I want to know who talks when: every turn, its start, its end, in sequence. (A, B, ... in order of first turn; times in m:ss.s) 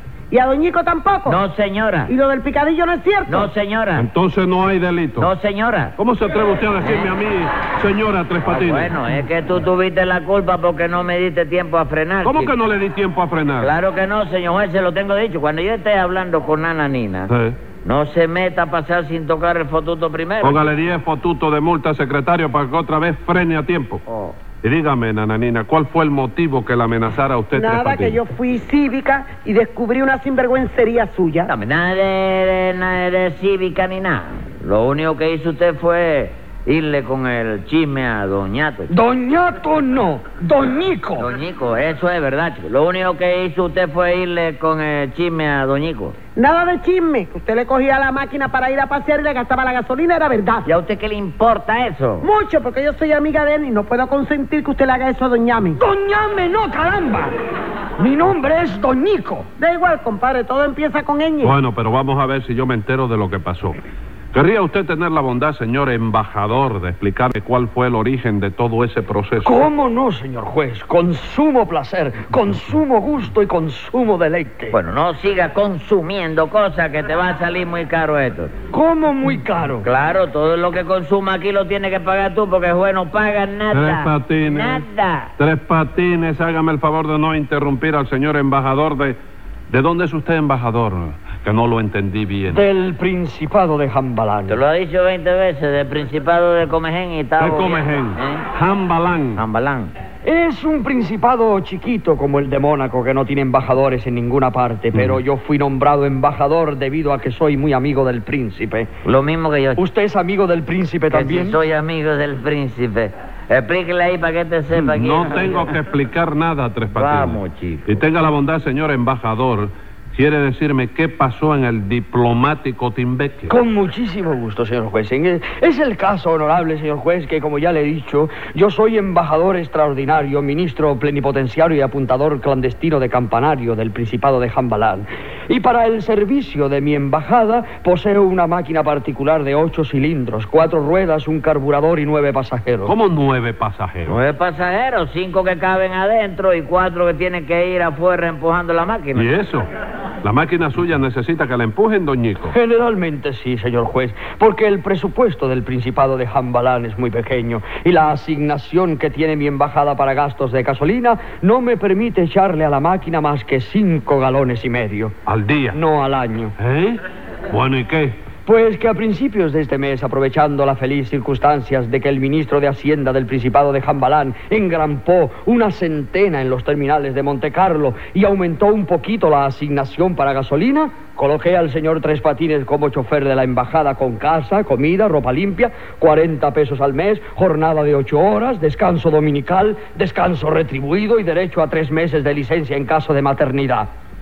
0:00.3-0:01.4 A
0:01.2-0:02.1 B
0:02.1-0:03.5 A
0:03.3-0:04.1 B
0:04.0-0:05.3 C
0:05.2-0:05.9 B
0:06.0-0:08.9 C
0:06.8-0:07.1 B
0:08.4-0:12.6 B
0:12.2-0:13.7 C
0:13.6-0:17.3 B
0:17.3-0:17.6 C
0:17.8-0:20.7 B
0:20.4-0:24.0 C
0:24.0-0:24.4 B
0:24.6-0:28.2 C
0:27.5-0:31.5 A
0:31.4-0:38.9 B
0:38.9-0:41.3 D
0:41.2-0:46.2 B
0:46.4-0:50.6 A
0:50.6-0:52.3 B
0:52.2-0:55.8 A
0:55.8-0:57.3 D
0:58.0-0:59.5 D
0:59.6-1:01.5 A
1:01.4-1:03.8 C
1:04.3-1:09.6 C
1:09.4-1:14.8 D
1:14.7-1:18.5 B
1:18.7-1:19.9 D
1:19.8-1:25.3 B
1:23.7-1:24.8 C
1:25.4-1:29.2 C
1:29.7-1:32.6 C
1:32.5-1:34.6 D
1:34.5-1:38.4 B
1:37.4-1:39.4 C
1:39.4-1:39.9 B
1:40.2-1:48.9 D
1:44.9-1:45.2 C
1:49.0-1:49.8 B
1:49.8-1:51.6 D
1:51.1-1:55.7 B
1:54.9-2:03.5 C
1:56.9-1:58.0 B
2:03.5-2:22.9 D
2:22.8-2:24.2 C
2:24.1-2:29.3 B
2:29.1-2:29.7 C
2:30.2-2:32.5 C
2:32.5-2:45.1 D
2:45.2-2:45.8 C
2:45.7-2:46.5 D
2:46.6-2:48.2 C
2:48.4-3:13.9 D